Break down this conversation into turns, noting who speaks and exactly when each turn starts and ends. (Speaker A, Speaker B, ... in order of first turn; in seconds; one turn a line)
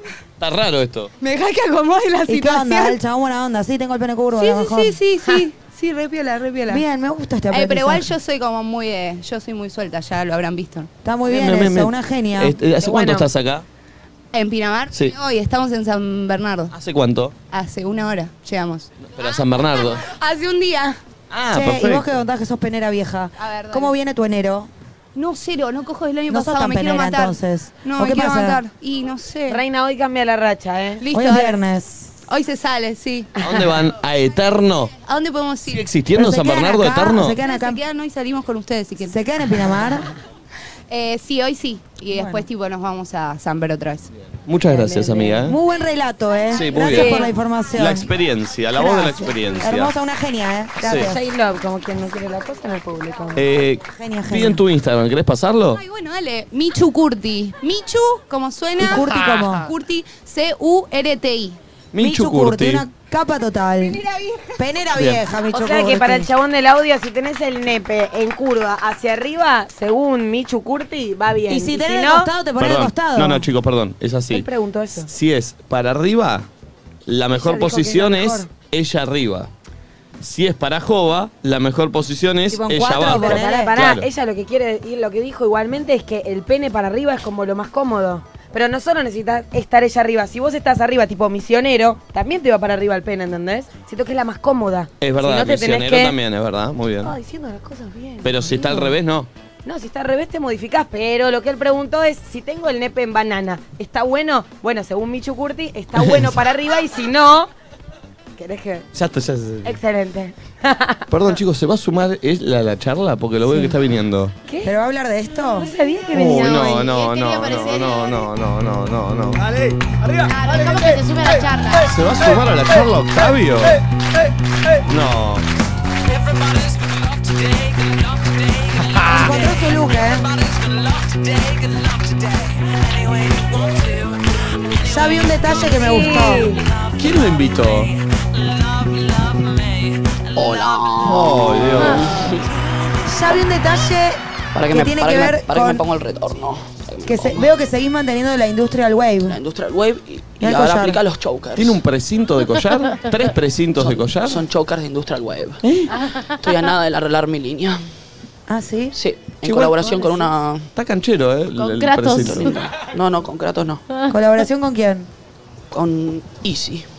Speaker A: 0.4-1.1
Speaker B: 1.2-3.0
Speaker C: 2.3-5.0
Speaker B: 4.3-6.8
Speaker C: 6.7-8.1
Speaker B: 7.5-10.9
Speaker C: 11.0-12.6
Speaker A: 11.3-13.7
Speaker D: 12.8-13.3
Speaker B: 14.3-16.8
Speaker A: 16.7-17.3
Speaker B: 17.5-21.0
Speaker A: 19.0-20.0
Speaker A: 21.3-22.1
Speaker C: 21.5-24.7
Speaker B: 23.4-23.9
Speaker B: 25.1-29.6
Speaker C: 26.3-28.6
Speaker D: 29.5-31.0
Speaker B: 31.0-31.6
Speaker C: 31.1-32.1
Speaker B: 32.3-33.3
Speaker A: 33.4-34.9
Speaker B: 35.0-35.9
Speaker A: 35.6-37.4
Speaker C: 36.1-37.8
Speaker B: 37.4-39.2
Speaker C: 39.0-40.1
Speaker B: 40.9-44.1
Speaker C: 42.1-42.5
Speaker A: 44.5-45.6
Speaker D: 44.7-45.4
Speaker C: 45.5-48.1
Speaker A: 46.5-49.9
Speaker D: 46.8-47.3
Speaker D: 48.8-49.6
Speaker C: 49.6-51.2
Speaker A: 50.8-51.1
Speaker D: 50.9-53.4
Speaker A: 53.4-55.8
Speaker C: 53.9-54.6
Speaker B: 55.7-61.6
Speaker C: 58.8-59.7
Speaker A: 61.9-62.9
Speaker C: 62.0-64.0
Speaker B: 63.8-64.5
Speaker C: 64.6-66.3
Speaker A: 65.0-65.2
Speaker D: 65.5-72.3
Speaker C: 71.5-73.5
Speaker A: 72.6-74.5
Speaker D: 74.3-75.1
Speaker A: 75.0-76.5
Speaker A: 77.1-79.5
Speaker D: 77.3-78.5
Speaker A: 80.2-84.1
Speaker C: 82.5-83.7
Speaker D: 83.0-96.1
Speaker A: 95.0-97.2
Speaker D: 97.0-98.9
Speaker A: 98.2-99.3
Speaker D: 99.6-107.5
Speaker A: 105.9-106.3
Speaker D: 108.3-108.8
Speaker A: 108.9-109.8
Speaker D: 109.6-111.3
Speaker A: 111.1-114.3
Speaker C: 113.5-113.7
Speaker D: 114.5-114.7
Speaker C: 114.6-115.7
Speaker D: 115.5-116.8
Speaker A: 116.1-119.4
Speaker E: 116.8-118.3
Speaker F: 119.3-121.5
Speaker E: 120.3-121.9
Speaker A: 121.9-123.8
Speaker F: 122.2-122.9
Speaker F: 123.6-124.8
Speaker A: 124.8-125.5
Speaker C: 129.0-130.3
Speaker C: 134.8-136.6
Speaker D: 135.9-136.6
Speaker A: 136.9-137.9
Speaker G: 140.3-142.4
Speaker A: 141.0-142.3
Speaker C: 143.0-145.8
Speaker G: 144.5-147.5
Speaker C: 147.1-149.4
Speaker G: 149.3-151.8
Speaker C: 150.4-151.0
Speaker A: 151.6-154.4
Speaker G: 153.8-157.8
Speaker C: 158.5-158.9
Speaker G: 158.9-160.7
Speaker D: 159.9-160.2
Speaker A: 160.8-162.6
Speaker E: 161.6-162.6
Speaker G: 162.2-163.8
Speaker C: 164.1-165.1
Speaker G: 165.7-166.9